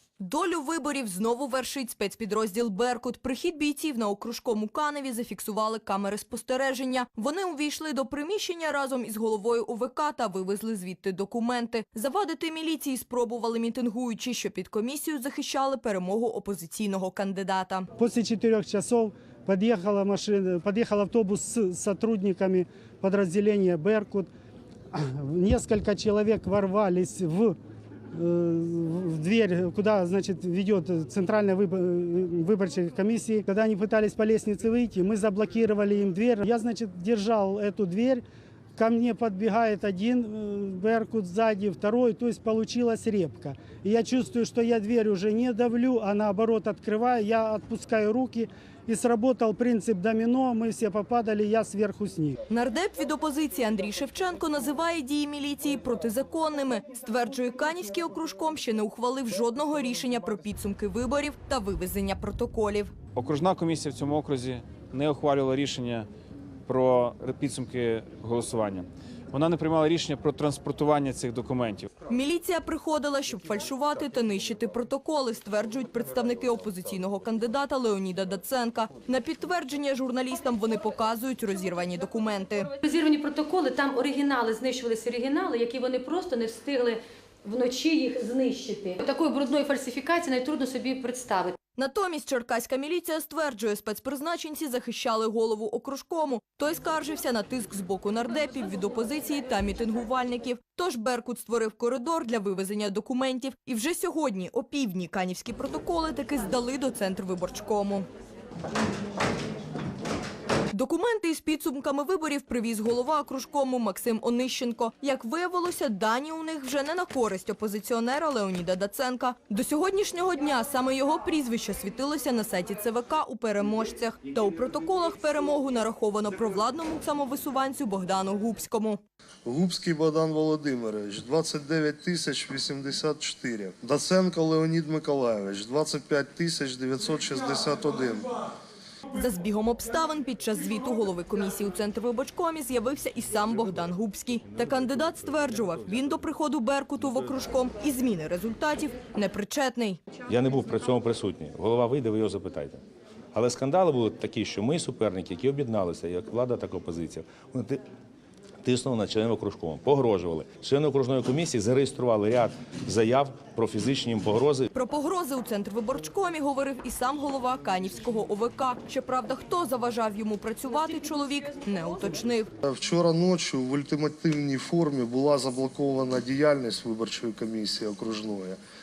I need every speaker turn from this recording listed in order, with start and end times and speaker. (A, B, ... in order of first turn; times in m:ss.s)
0:00.2-0:17.9 A
0:18.0-0:24.3 B
0:24.9-0:27.6 B
0:28.1-0:38.2 B
0:38.8-0:52.4 B
0:52.5-1:02.9 A
1:03.1-1:06.1 C
1:06.7-1:11.9 C
1:12.1-1:22.7 A
1:22.8-1:31.5 D
1:31.7-1:48.0 A
1:50.7-2:09.0 A
2:09.4-2:18.3 E
2:19.1-2:30.0 A
2:30.3-2:32.8 F
2:33.3-2:37.8 F
2:38.6-2:44.7 F
2:44.7-2:52.5 A
2:52.6-2:58.6 E